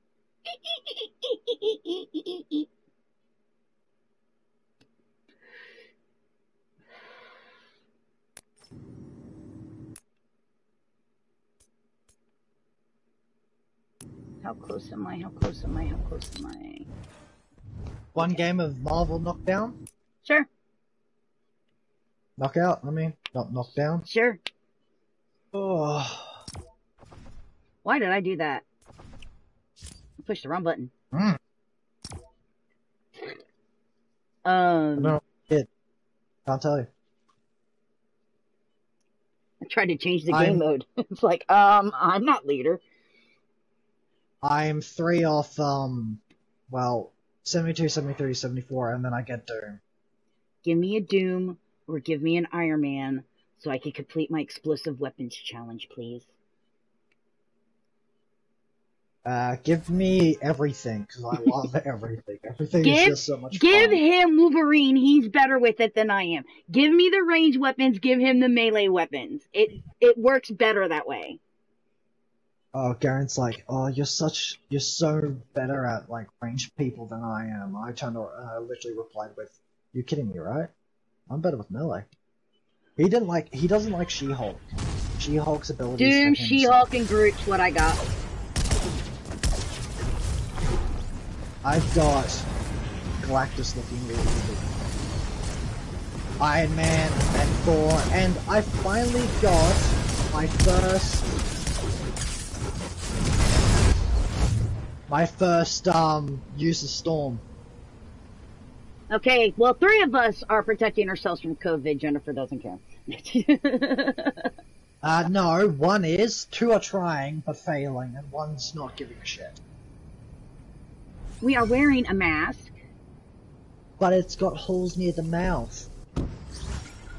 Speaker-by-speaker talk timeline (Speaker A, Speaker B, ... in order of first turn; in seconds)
Speaker A: 0.6-2.7, 14.4-16.9, 24.1-24.4, 27.8-28.6, 30.2-30.9, 34.4-35.2, 39.6-42.8, 50.6-56.3, 62.8-71.4, 86.0-88.0, 109.1-114.5, 121.4-122.7
Speaker B: 18.1-19.8, 22.4-24.1, 25.5-26.4, 31.1-31.4, 35.0-35.7, 36.5-36.9, 40.3-40.6, 44.4-49.8, 59.2-64.0, 72.7-80.7, 81.3-82.1, 83.0-84.7, 85.2-86.9, 91.6-92.5, 93.2-94.7, 96.4-101.3, 105.1-107.4, 115.0-119.6, 124.0-125.9